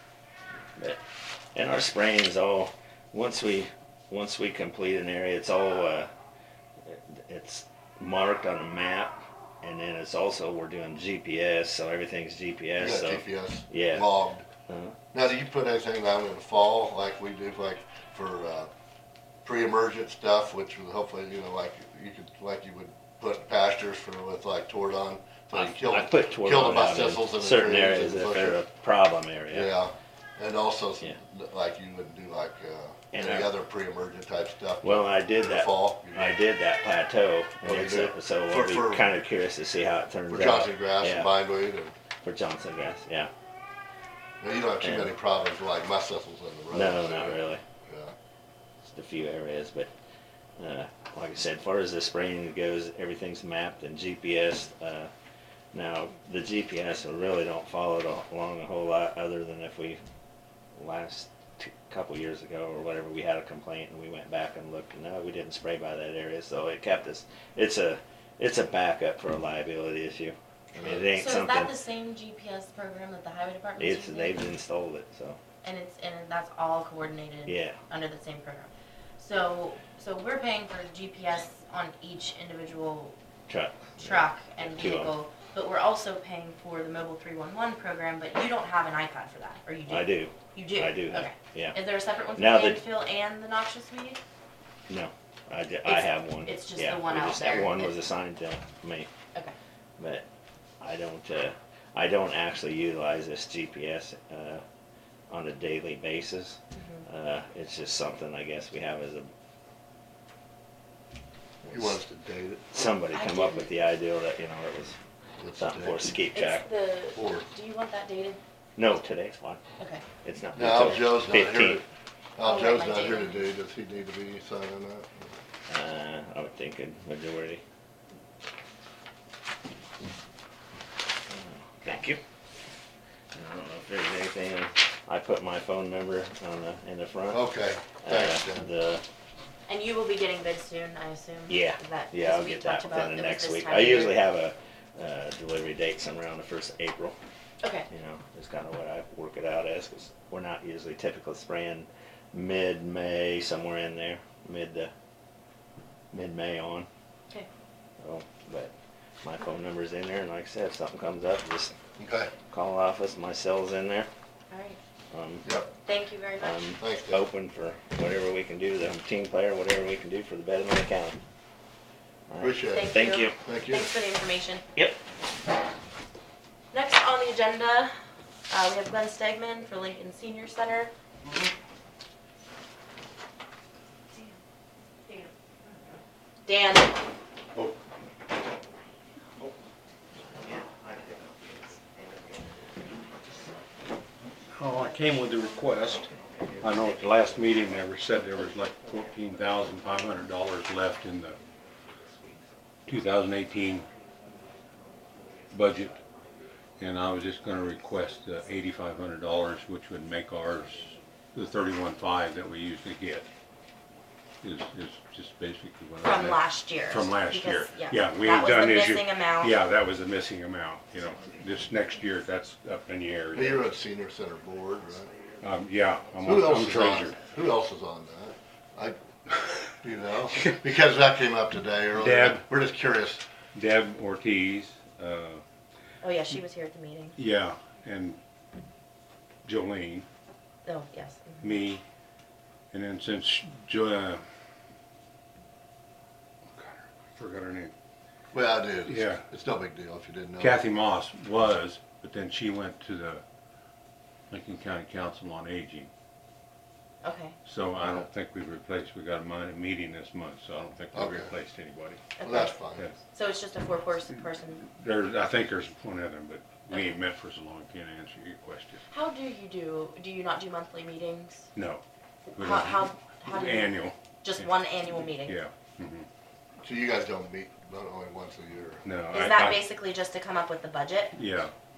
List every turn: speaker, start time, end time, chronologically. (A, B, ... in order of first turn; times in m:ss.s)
0:01.5-0:06.1 A
0:06.8-0:14.1 A
0:12.8-0:14.5 B
0:14.7-0:15.0 A
0:15.1-0:18.7 B
0:19.4-0:28.6 B
0:25.5-0:29.7 A
0:29.5-0:36.4 B
0:33.1-0:33.5 A
0:34.8-0:41.3 A
0:37.6-0:39.0 B
0:40.3-0:41.9 B
0:42.2-0:43.3 A
0:44.4-0:48.1 B
0:44.8-0:45.1 A
0:46.7-0:47.6 A
0:48.8-0:49.9 A
0:50.6-0:55.1 A
0:55.7-1:00.0 A
1:00.7-1:11.7 A
1:10.8-1:11.2 B
1:10.8-1:14.4 C
1:13.8-1:15.4 A
1:15.6-1:23.2 C
1:17.4-1:17.8 A
1:23.5-1:25.1 A
1:24.0-1:34.2 C
1:29.9-1:31.8 A
1:32.3-1:32.8 A
1:34.9-1:39.1 A
1:35.8-1:37.9 C
1:40.0-1:40.2 A
1:40.8-1:44.6 A
1:45.3-1:49.3 A
1:46.7-1:47.0 C
1:51.6-1:52.0 A
1:51.7-1:52.6 B
1:52.7-1:55.0 A
1:53.1-1:53.7 C
1:55.4-1:56.2 B
1:55.6-1:56.6 A
1:56.3-1:58.4 C
1:57.1-1:57.5 B
1:58.8-1:59.6 A
1:59.8-2:00.0 C
2:00.2-2:01.8 A
2:00.5-2:05.4 B
2:02.4-2:03.5 C
2:05.7-2:07.6 A
2:11.8-2:12.2 A
2:13.3-2:17.5 A
2:17.3-2:18.7 B
2:18.0-2:19.0 A
2:19.7-2:24.2 C
2:21.5-2:27.2 A
2:27.9-2:34.9 A
2:36.1-2:36.9 A
2:38.0-2:41.7 A
2:42.0-2:42.3 B
2:42.5-2:44.1 A
2:44.5-2:44.8 C
2:45.1-2:45.5 A
2:45.4-2:45.7 B
2:45.8-2:46.6 C
2:46.4-2:51.2 A
2:46.8-2:47.2 B
2:52.3-2:53.4 A
2:52.4-2:53.9 B
2:52.7-2:54.6 C
2:56.7-2:57.9 C
2:58.5-3:00.9 C
3:06.4-3:07.0 C
3:14.5-3:21.4 D
3:22.9-3:23.9 D
3:25.5-3:26.0 D
3:26.8-3:33.3 D
3:34.4-3:43.6 D
3:36.0-3:39.5 C
3:43.3-3:45.1 B
3:45.4-3:47.2 D
3:46.2-3:49.0 B
3:49.7-3:53.2 B
3:52.0-3:52.4 D
3:53.5-3:55.4 D
3:56.0-3:57.2 C
3:57.2-3:58.2 D
3:59.4-4:00.0 D
4:00.6-4:01.6 C
4:01.4-4:01.8 D
4:02.7-4:04.2 D
4:06.5-4:07.7 D
4:08.3-4:10.6 B
4:08.8-4:09.2 D
4:10.4-4:13.2 D
4:14.3-4:15.9 D
4:17.0-4:17.4 C
4:17.4-4:22.2 D
4:20.9-4:21.3 B
4:22.2-4:22.5 C
4:22.2-4:22.8 B
4:23.1-4:24.6 C
4:24.6-4:28.8 D
4:28.9-4:31.5 C
4:31.5-4:31.8 D
4:32.3-4:36.0 D
4:32.4-4:35.4 C
4:36.6-4:38.8 B
4:38.8-4:39.6 D
4:39.1-4:41.2 C
4:41.1-4:41.5 D